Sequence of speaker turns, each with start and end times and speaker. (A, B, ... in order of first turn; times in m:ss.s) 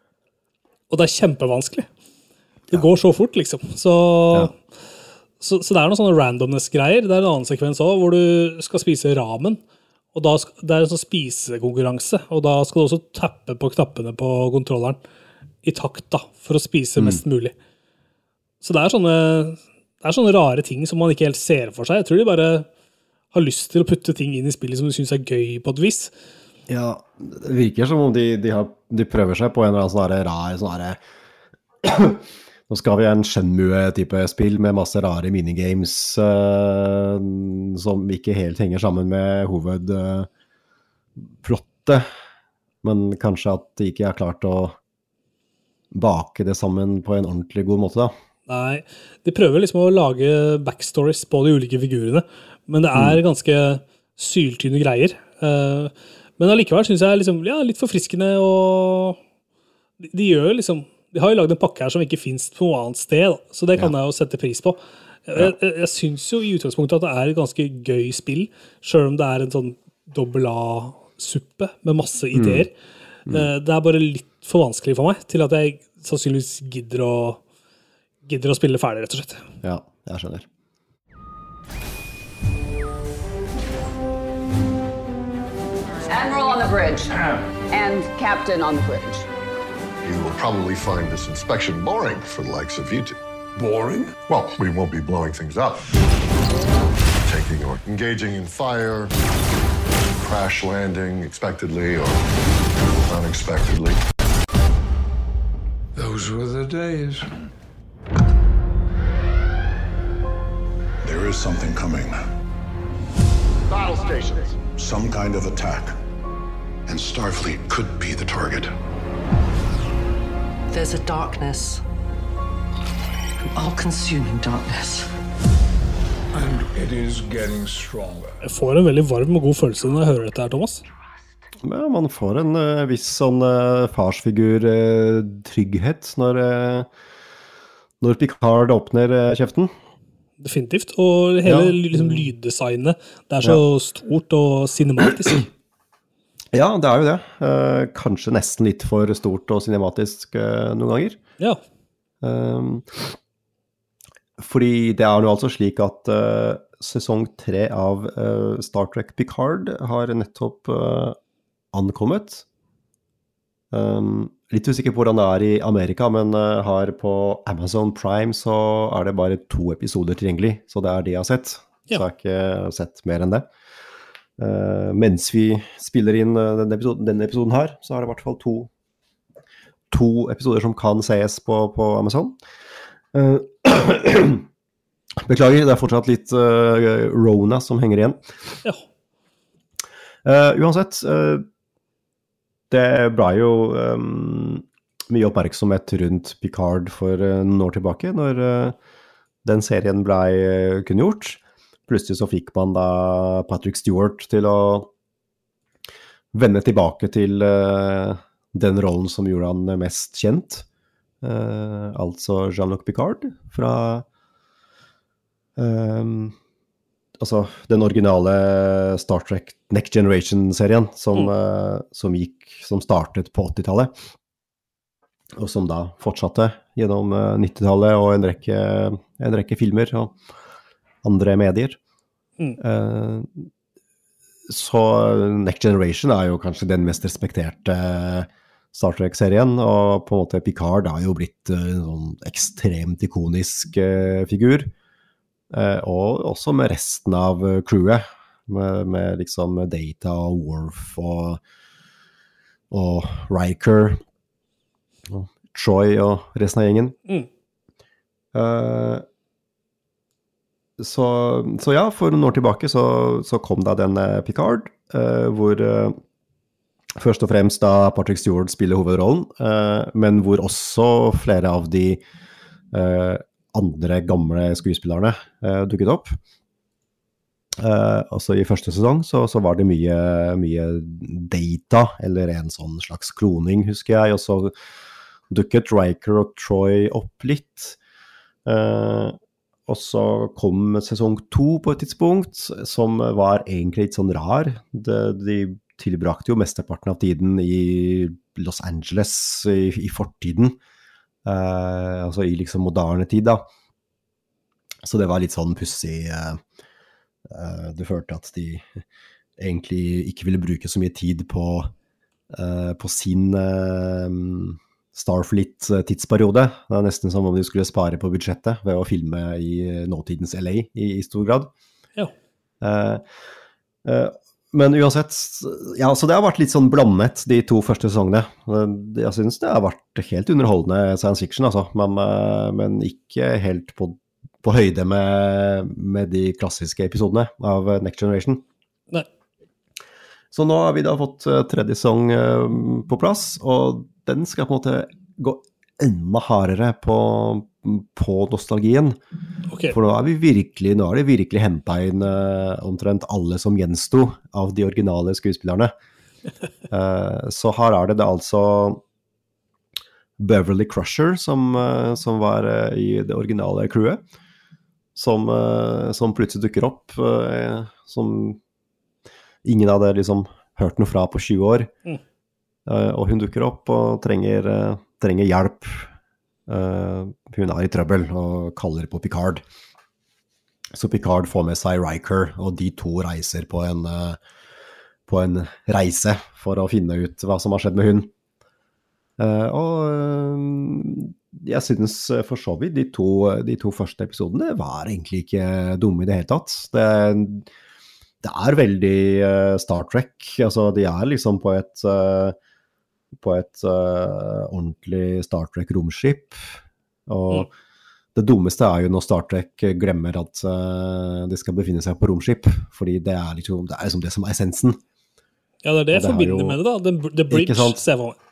0:00.9-0:01.9 A
0:02.7-0:04.5 A
0:05.4-0:09.6 A
0:10.1-0:15.0 A
0:15.6-0:17.5 A
0:18.6-0:22.7 A
0:23.3-0:26.1 A
0:26.7-0:31.0 B
0:31.8-0:40.3 B
0:41.4-0:42.1 B
0:42.8-0:44.8 B
0:45.9-0:48.1 B
0:48.5-0:59.2 A
1:00.0-1:12.7 A
1:12.4-1:12.7 B
1:13.3-1:17.4 A
1:18.3-1:19.4 A
1:19.6-1:20.5 B
1:26.1-1:27.2 C
1:27.7-1:29.3 C
1:30.0-1:33.2 D
1:33.6-1:34.2 E
1:34.3-1:35.9 D
1:37.2-1:39.1 D
1:40.2-1:42.2 D
1:43.0-1:44.0 D
1:46.0-1:47.3 E
1:51.0-1:52.3 F
1:53.7-1:54.6 D
1:54.7-1:56.0 F
1:56.9-1:58.7 F
2:00.7-2:01.8 G
2:03.6-2:05.0 G
2:06.3-2:08.4 E
2:08.4-2:10.8 A
2:11.6-2:16.9 B
2:18.0-2:19.7 B
2:20.4-2:25.5 A
2:21.4-2:22.2 B
2:26.5-2:31.2 B
2:32.2-2:33.1 B
2:34.4-2:41.2 B
2:41.7-2:42.4 B
2:43.7-2:53.5 B
2:54.4-2:58.7 B
2:59.9-3:02.4 B
3:03.1-3:04.4 B
3:05.2-3:08.2 B
3:10.2-3:11.4 B
3:12.7-3:18.8 B
3:19.4-3:24.9 B
3:26.3-3:30.7 B
3:31.2-3:34.0 B
3:35.6-3:36.4 B
3:37.2-3:43.9 B
3:45.4-3:50.2 B
3:51.0-3:51.8 B
3:52.6-3:53.5 B
3:54.5-4:04.7 B
4:05.5-4:11.4 B
4:12.7-4:14.0 B
4:15.1-4:17.0 B
4:18.3-4:19.0 B
4:20.8-4:26.0 B
4:27.0-4:32.0 B
4:32.7-4:36.2 B
4:37.6-4:44.5 B
4:45.3-4:47.8 B
4:48.4-4:49.2 B
4:49.7-5:00.6 B
5:01.2-5:03.4 B
5:04.8-5:06.4 B
5:07.3-5:08.8 B
5:09.4-5:11.7 B
5:12.3-5:21.5 B
5:22.6-5:23.0 B
5:23.8-5:38.4 B
5:40.3-5:49.0 B
5:49.7-5:55.7 B
5:56.7-5:58.8 B
6:00.2-6:04.0 B
6:05.0-6:08.4 B
6:09.4-6:11.7 B
6:12.7-6:15.9 B
6:16.5-6:19.4 B
6:20.7-6:24.2 B
6:25.1-6:28.1 B
6:29.2-6:37.5 B
6:38.2-6:42.4 B
6:43.2-6:46.4 B
6:47.1-6:47.5 B
6:48.2-6:54.8 B
6:55.6-6:58.2 A
6:55.9-6:56.6 B
6:57.3-6:57.8 B